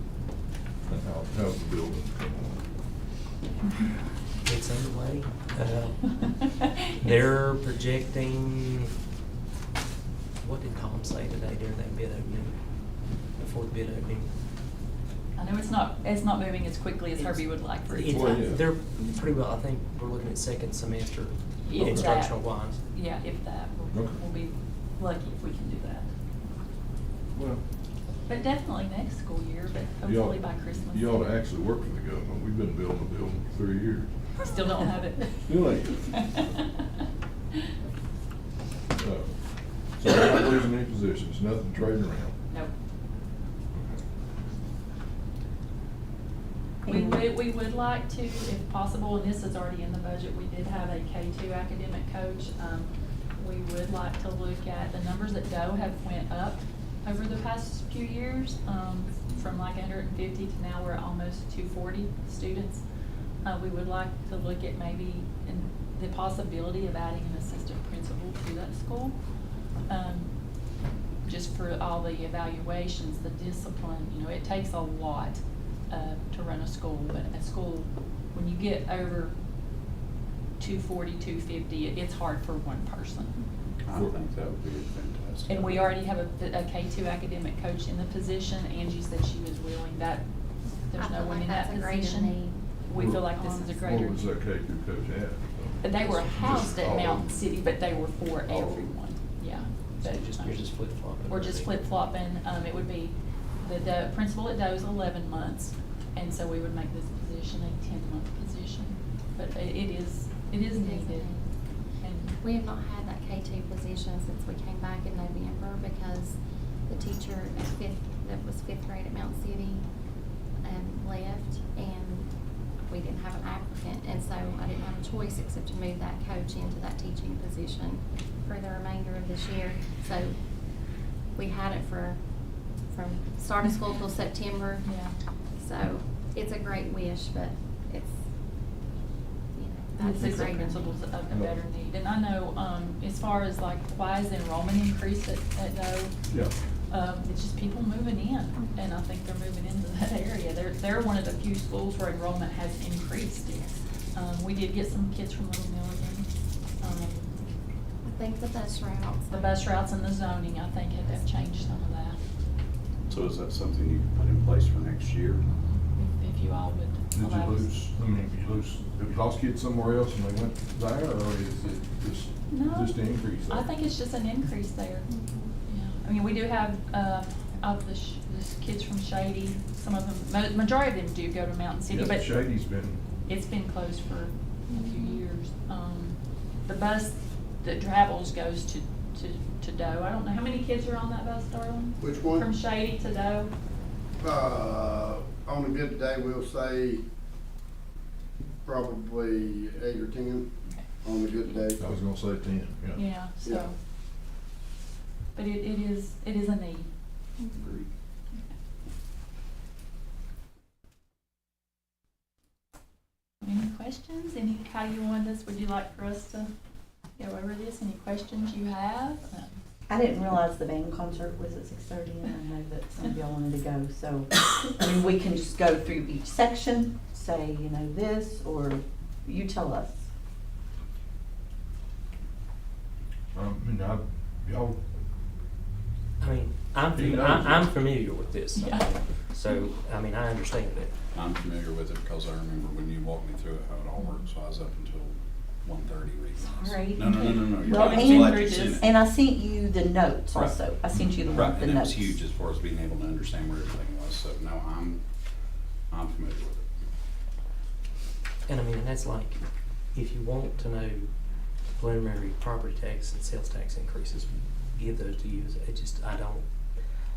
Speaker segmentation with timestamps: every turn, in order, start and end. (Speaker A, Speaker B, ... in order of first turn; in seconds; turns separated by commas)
Speaker A: 0.9-2.7, Speaker B: 4.4-8.9, Speaker B: 10.4-14.3, Speaker C: 15.4-18.5, Speaker B: 17.8-22.8, Speaker A: 18.1-18.6, Speaker C: 21.6-26.1, Speaker A: 23.9-24.2, Speaker A: 27.3-27.6, Speaker C: 28.3-31.3, Speaker A: 30.0-34.1, Speaker C: 34.4-36.8, Speaker A: 35.5-36.0, Speaker A: 39.0-39.3, Speaker A: 40.0-42.4, Speaker A: 43.8-44.0, Speaker D: 46.9-47.2, Speaker C: 46.9-62.8, Speaker C: 63.4-69.2, Speaker C: 69.9-70.7, Speaker C: 71.2-79.3, Speaker C: 80.6-83.4, Speaker E: 83.8-86.0, Speaker C: 85.5-94.2, Speaker F: 91.0-93.8, Speaker A: 92.9-93.2, Speaker A: 93.9-97.3, Speaker C: 95.8-111.3, Speaker A: 98.5-98.8, Speaker B: 100.0-101.7, Speaker F: 110.7-111.5, Speaker C: 112.0-112.4, Speaker F: 112.2-119.9, Speaker F: 120.6-130.8, Speaker F: 131.3-138.2, Speaker C: 134.8-135.2, Speaker F: 139.5-141.0, Speaker C: 140.0-146.1, Speaker A: 141.3-141.6, Speaker A: 146.3-146.5, Speaker C: 146.9-156.3, Speaker C: 156.8-157.4, Speaker F: 158.0-159.6, Speaker C: 159.3-162.2, Speaker E: 163.1-165.4, Speaker C: 165.5-167.7, Speaker A: 167.1-173.7, Speaker C: 172.5-175.1, Speaker F: 175.1-175.5, Speaker C: 175.7-182.5, Speaker A: 181.9-183.0, Speaker C: 183.2-193.5, Speaker F: 184.7-185.2, Speaker G: 192.0-192.5, Speaker G: 194.2-197.0, Speaker G: 198.7-200.5, Speaker G: 201.0-201.9, Speaker A: 201.8-203.0, Speaker C: 202.9-203.8, Speaker G: 203.4-203.7, Speaker C: 205.3-206.9, Speaker F: 207.4-207.7, Speaker C: 213.4-216.5, Speaker C: 217.2-219.5, Speaker D: 219.9-230.0, Speaker A: 233.3-234.8, Speaker B: 236.2-240.9, Speaker A: 236.9-237.6, Speaker C: 238.6-238.9, Speaker E: 241.1-248.8, Speaker D: 246.4-252.2, Speaker C: 247.2-248.8, Speaker E: 250.4-255.0, Speaker E: 255.9-256.6, Speaker B: 258.4-259.4, Speaker B: 259.9-261.1, Speaker B: 261.8-266.4